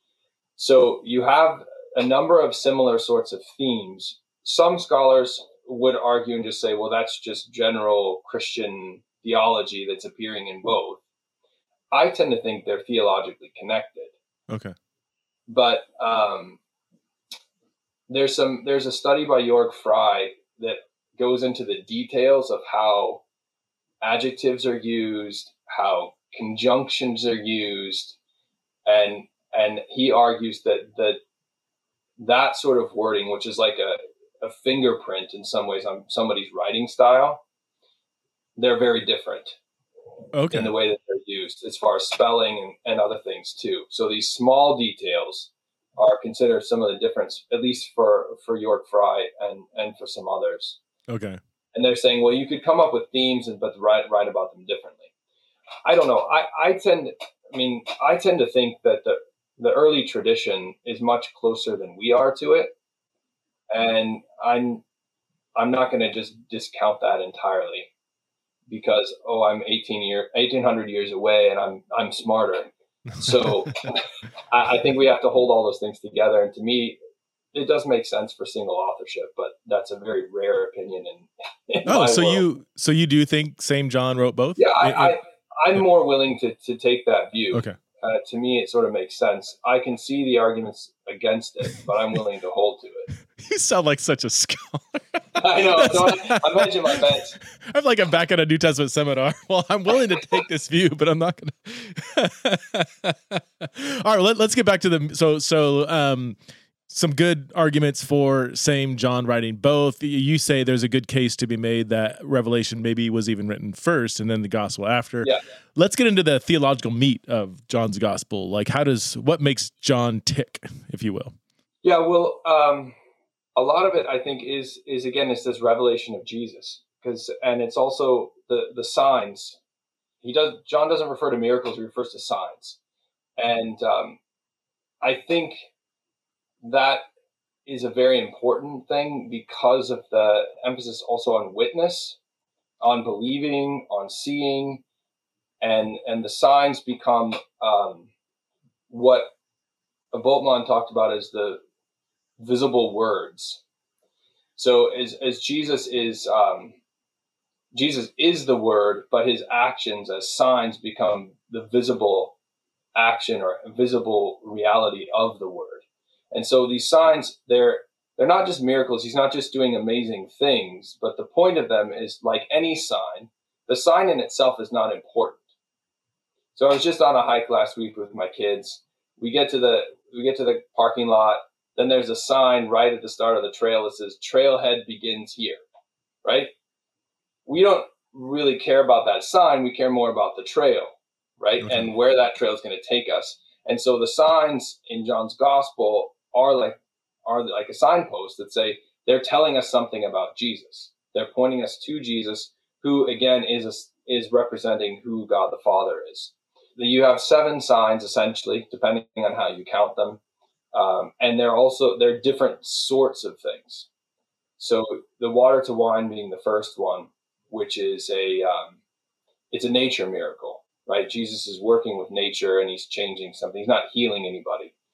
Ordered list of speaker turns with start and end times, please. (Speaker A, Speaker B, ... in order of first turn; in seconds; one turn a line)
Speaker A: 0.6-11.0
Speaker A: 11.9-14.1
Speaker B: 14.5-14.8
Speaker A: 15.5-16.6
Speaker A: 18.1-23.2
Speaker A: 24.0-28.2
Speaker A: 28.9-31.2
Speaker A: 32.2-37.4
Speaker A: 38.6-39.6
Speaker B: 40.3-40.7
Speaker A: 40.5-50.8
Speaker B: 51.1-51.4
Speaker A: 51.7-55.1
Speaker A: 55.9-62.8
Speaker A: 63.7-64.8
Speaker A: 65.6-67.9
Speaker A: 68.7-77.0
Speaker B: 73.1-73.7
Speaker A: 77.5-82.4
Speaker B: 81.8-85.2
Speaker A: 84.6-93.1
Speaker B: 93.3-106.4
Speaker A: 95.4-97.4
Speaker B: 106.9-121.3
Speaker A: 121.8-123.0
Speaker A: 123.6-129.6
Speaker A: 130.2-132.8
Speaker A: 133.4-134.2
Speaker A: 135.0-135.7
Speaker A: 136.6-137.1
Speaker A: 137.7-142.2
Speaker A: 142.8-144.8
Speaker A: 145.6-148.1
Speaker A: 148.9-149.3
Speaker A: 150.1-151.6
Speaker A: 152.4-153.6
Speaker A: 154.6-156.8
Speaker A: 157.7-162.3
Speaker A: 162.9-175.4
Speaker A: 176.6-185.6
Speaker A: 186.2-186.5
Speaker A: 187.5-210.2
Speaker B: 191.6-191.9
Speaker A: 210.7-213.9
Speaker A: 214.6-218.8
Speaker A: 219.5-224.7